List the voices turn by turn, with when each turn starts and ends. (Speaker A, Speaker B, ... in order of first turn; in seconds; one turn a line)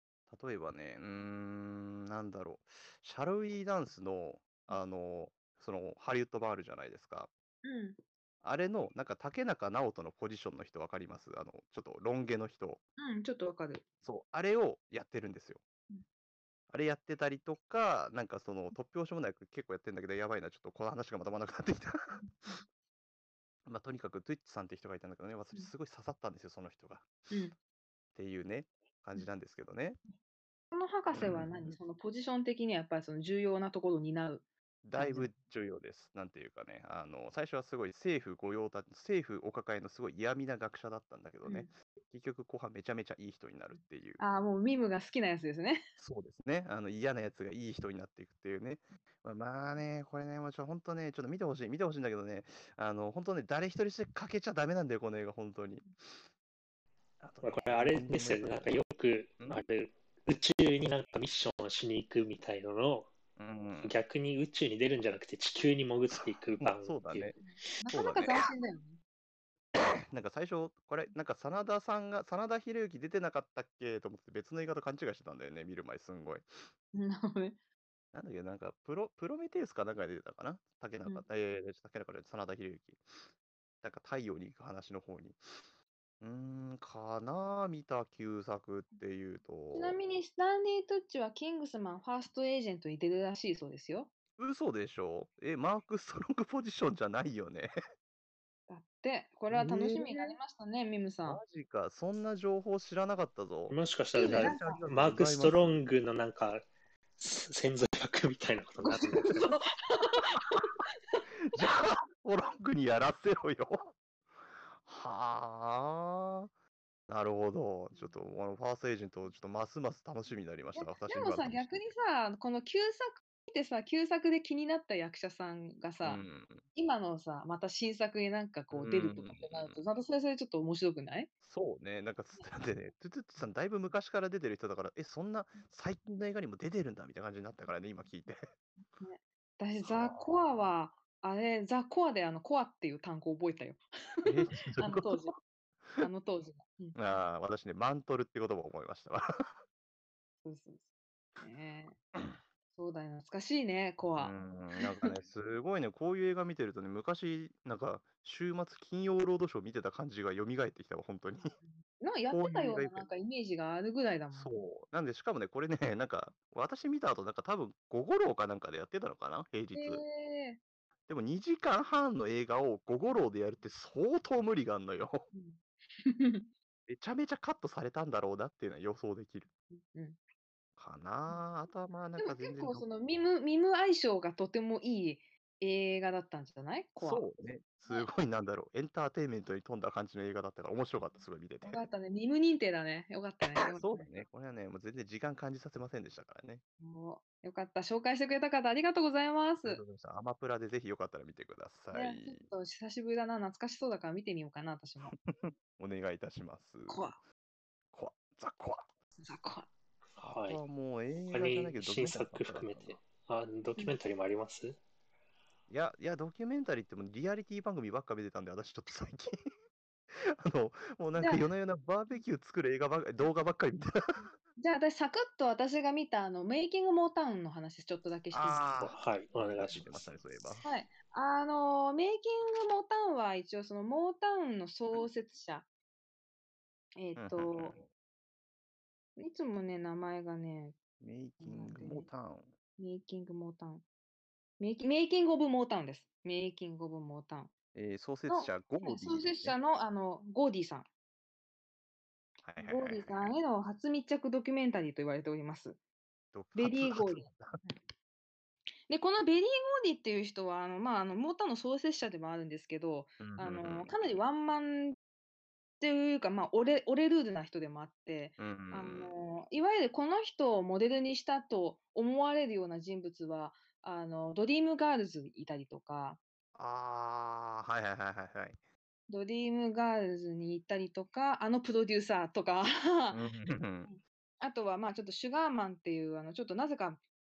Speaker A: 0.3-7.3
Speaker B: 7.6-8.0
Speaker A: 8.4-12.8
Speaker B: 13.0-13.8
Speaker A: 14.0-15.6
Speaker A: 16.7-22.2
Speaker B: 22.1-22.6
Speaker A: 23.6-27.1
Speaker A: 28.1-30.0
Speaker B: 30.7-34.4
Speaker A: 31.1-31.8
Speaker A: 34.8-44.2
Speaker B: 35.0-35.3
Speaker B: 41.4-41.7
Speaker B: 44.2-45.8
Speaker A: 46.0-56.2
Speaker A: 57.2-58.7
Speaker C: 57.4-63.1
Speaker A: 63.4-63.9
Speaker C: 63.8-67.4
Speaker A: 66.1-67.4
Speaker B: 67.4-69.0
Speaker A: 67.9-68.4
Speaker A: 69.8-76.7
Speaker B: 76.9-77.6
Speaker A: 78.1-83.0
Speaker A: 83.8-85.5
Speaker A: 86.2-90.0
Speaker B: 89.7-94.1
Speaker A: 94.4-97.7
Speaker B: 98.7-101.4
Speaker A: 99.5-100.4
Speaker A: 101.2-105.7
Speaker C: 103.7-106.6
Speaker B: 104.1-104.8
Speaker C: 107.2-109.5
Speaker B: 108.8-111.2
Speaker A: 111.5-113.9
Speaker A: 114.7-116.5
Speaker A: 117.1-121.9
Speaker B: 120.8-126.2
Speaker A: 126.0-126.6
Speaker B: 126.7-131.3
Speaker A: 128.7-129.8
Speaker A: 131.4-138.4
Speaker B: 139.0-145.3
Speaker A: 139.8-140.3
Speaker A: 144.2-145.3
Speaker B: 146.0-147.0
Speaker A: 146.9-149.2
Speaker B: 150.4-150.8
Speaker B: 151.4-152.0
Speaker B: 152.7-155.1
Speaker A: 154.2-161.5
Speaker B: 161.6-164.6
Speaker A: 162.3-163.1
Speaker A: 164.3-170.0
Speaker B: 169.7-170.6
Speaker A: 171.1-175.3
Speaker B: 175.3-176.5
Speaker A: 176.9-179.5
Speaker B: 179.7-180.2
Speaker A: 180.8-182.9
Speaker B: 182.2-187.2
Speaker A: 187.0-191.8
Speaker B: 187.9-188.1
Speaker B: 191.6-194.2
Speaker A: 193.7-196.6
Speaker B: 196.8-199.8
Speaker A: 199.6-202.5
Speaker B: 201.9-205.2
Speaker A: 205.1-207.1
Speaker B: 206.9-207.2
Speaker A: 207.9-208.8
Speaker B: 209.2-209.7
Speaker C: 210.2-210.6
Speaker A: 210.4-213.0
Speaker C: 211.3-214.8
Speaker A: 215.7-219.4
Speaker A: 220.2-224.1
Speaker B: 221.2-221.5
Speaker B: 224.6-228.7
Speaker A: 228.3-230.7
Speaker C: 228.8-230.0
Speaker B: 230.6-235.7
Speaker B: 237.0-237.8
Speaker A: 237.2-237.9
Speaker B: 239.2-240.8
Speaker A: 241.0-242.5
Speaker B: 241.4-242.1
Speaker B: 242.8-243.8
Speaker B: 244.6-247.5
Speaker A: 247.7-249.6
Speaker B: 248.3-250.9
Speaker A: 252.4-253.3
Speaker B: 252.6-255.8
Speaker A: 256.3-257.6
Speaker B: 256.5-257.8
Speaker B: 258.9-264.9
Speaker A: 263.2-263.9
Speaker B: 265.8-276.2
Speaker A: 268.4-269.1
Speaker A: 276.5-278.6
Speaker B: 279.1-283.2
Speaker A: 283.1-283.9
Speaker B: 283.8-287.0